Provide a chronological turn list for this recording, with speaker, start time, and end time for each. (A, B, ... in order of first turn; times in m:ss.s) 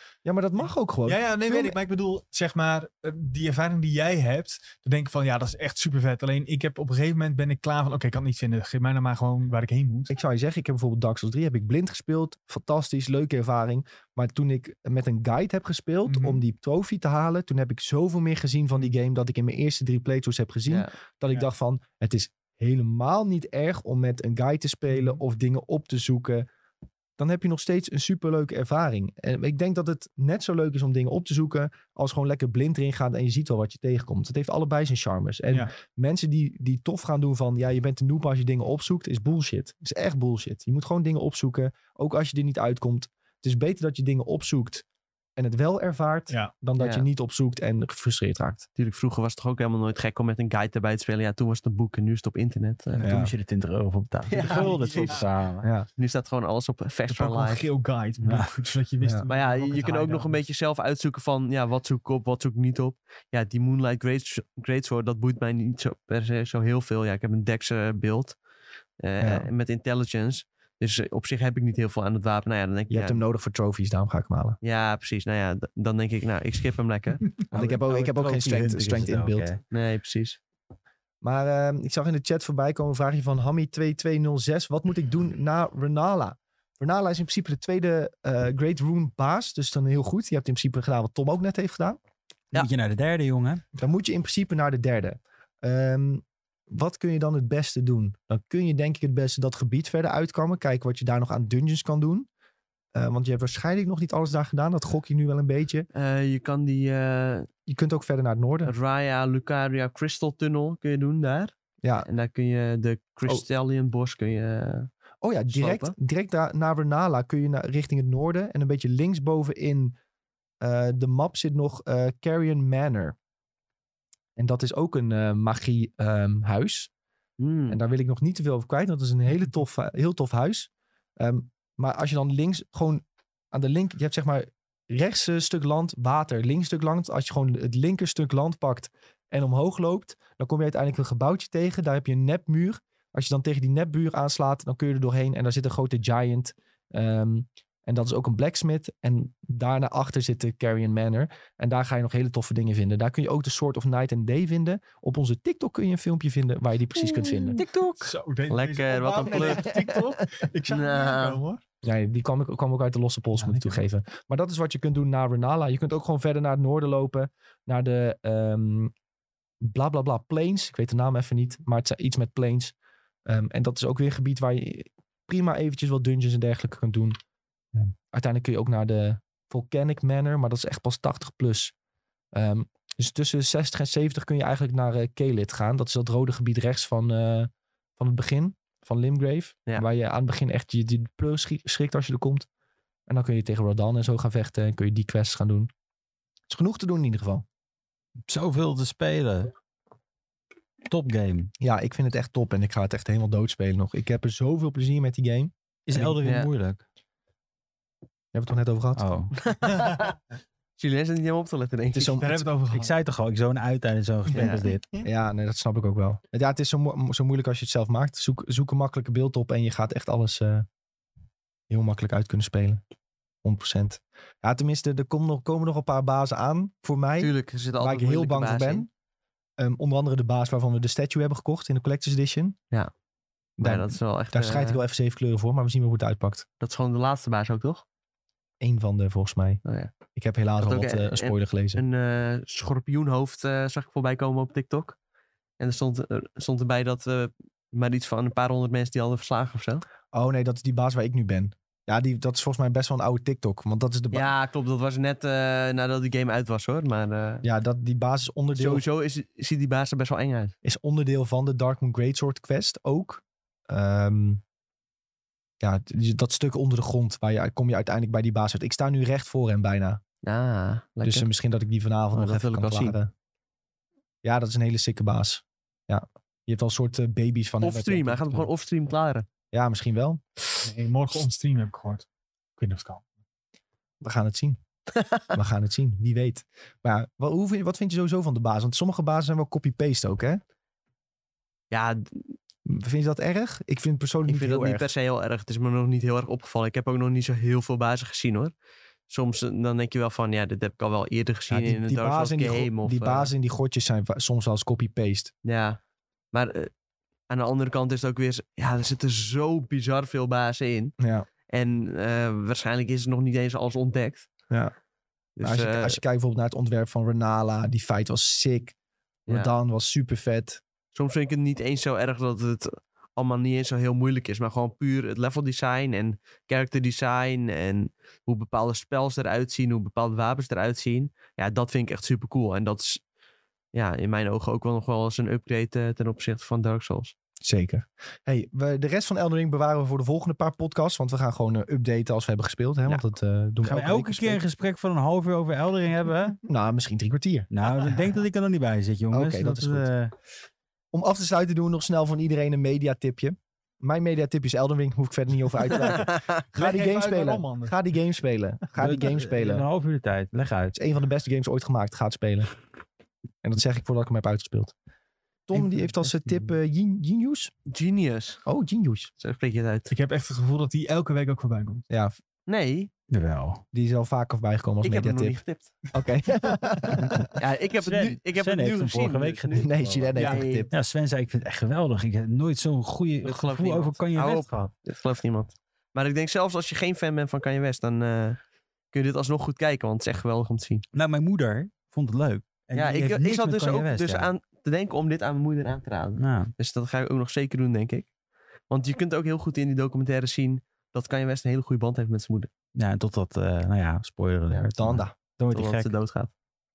0:00.2-0:01.8 A
0:00.6-0:10.1 B
0:10.1-0:26.5 A
0:16.1-0:16.4 B
0:24.9-0:25.2 B
0:27.2-0:44.8 A
0:45.4-0:48.7 A
0:46.8-0:47.0 C
0:48.8-0:53.0 C
0:52.9-0:55.7 D
0:53.0-0:53.3 A
0:54.3-0:55.2 C
0:54.4-0:55.3 B
0:55.6-0:55.9 A
0:56.0-0:57.6 C
0:57.1-1:00.4 B
0:58.2-0:58.5 D
0:59.0-0:59.2 A
0:59.3-1:08.4 C
1:09.0-1:13.2 C
1:09.2-1:09.5 A
1:12.9-1:14.6 A
1:14.6-1:17.2 C
1:17.5-1:19.6 D
1:17.5-1:19.5 A
1:19.7-1:20.4 C
1:21.2-1:32.0 A
1:32.5-1:33.6 D
1:33.8-1:42.3 A
1:42.9-1:45.9 A
1:45.9-1:47.5 C
1:47.7-1:48.7 A
1:48.6-1:54.9 C
1:51.8-1:52.1 A
1:55.2-2:00.0 A
1:55.5-1:55.9 C
2:00.6-2:03.2 A
2:04.4-2:06.9 A
2:07.4-2:07.8 C
2:07.7-2:37.6 A
2:37.2-2:40.0 C
2:37.9-2:41.6 B
2:39.2-2:39.9 A
2:40.7-2:41.4 C
2:41.8-2:48.9 A
2:43.4-2:43.8 B
2:49.6-2:52.7 A
2:53.2-2:57.2 A
2:57.8-3:01.7 A
3:02.3-3:12.5 A
3:13.1-3:15.7 A
3:16.5-3:17.4 A
3:18.3-3:19.5 D
3:20.9-3:21.5 D
3:21.6-3:26.2 A
3:25.9-3:26.8 D
3:26.2-3:26.5 C
3:28.3-3:29.0 A
3:29.0-3:29.3 D
3:29.5-3:30.1 C
3:30.8-3:32.2 C
3:31.9-3:32.4 A
3:32.2-3:32.9 B
3:32.7-3:34.9 D
3:34.4-3:35.0 B
3:35.0-3:40.6 A
3:41.7-3:42.8 A
3:43.4-3:48.9 A
3:47.2-3:48.8 C
3:49.6-3:52.6 A
3:53.6-3:56.4 A
3:53.6-3:54.8 C
3:56.6-3:57.8 C
3:58.6-3:59.6 A
3:59.6-3:59.9 C
4:00.1-4:01.8 A
4:00.6-4:05.0 C
4:05.6-4:09.8 C
4:10.1-4:14.3 A
4:14.1-4:17.4 C
4:17.4-4:18.8 A
4:18.6-4:20.5 C
4:20.6-4:24.4 A
4:25.6-4:30.0 A
4:30.2-4:31.3 C
4:31.0-4:33.1 A
4:32.1-4:33.0 C
4:34.2-4:38.5 A
4:37.6-4:39.3 C
4:39.5-4:40.2 A
4:40.6-4:43.1 B
4:44.0-4:44.6 A
4:45.3-4:50.4 A
4:51.7-4:52.3 C
4:52.6-4:54.9 A
4:54.2-4:58.5 C
4:59.1-5:03.3 C
5:01.5-5:05.3 A
5:05.4-5:05.8 C
5:06.3-5:06.7 C
5:07.3-5:10.9 C
5:11.0-5:11.3 A
5:11.5-5:14.3 C
5:15.4-5:16.0 C
5:15.4-5:18.7 A
5:19.3-5:19.5 C
5:19.3-5:20.6 A
5:20.9-5:33.0 C
5:33.7-5:37.1 C
5:37.4-5:44.4 A
5:43.6-5:46.4 D
5:46.4-5:47.9 A
5:47.5-5:50.1 D
5:49.1-5:49.9 A
5:50.9-5:59.6 A
5:55.7-5:57.8 B
5:58.8-6:00.7 D
6:00.7-6:02.5 A
6:03.4-6:04.7 A
6:05.5-6:07.5 A
6:07.7-6:08.4 C
6:08.4-6:09.1 A
6:09.2-6:09.9 C
6:09.9-6:11.8 B
6:12.5-6:12.9 C
6:13.1-6:13.6 D
6:13.7-6:15.4 A
6:14.8-6:15.7 C
6:15.9-6:17.3 A
6:17.0-6:24.7 D
6:17.4-6:19.6 C
6:19.5-6:20.7 A
6:20.1-6:20.6 B
6:20.2-6:20.7 C
6:23.2-6:28.4 C
6:28.9-6:30.8 C
6:30.9-6:34.3 D
6:32.8-6:38.1 C
6:36.2-6:36.5 D
6:38.7-6:42.5 C
6:42.8-6:45.9 D
6:44.8-6:45.2 A
6:45.5-6:46.3 C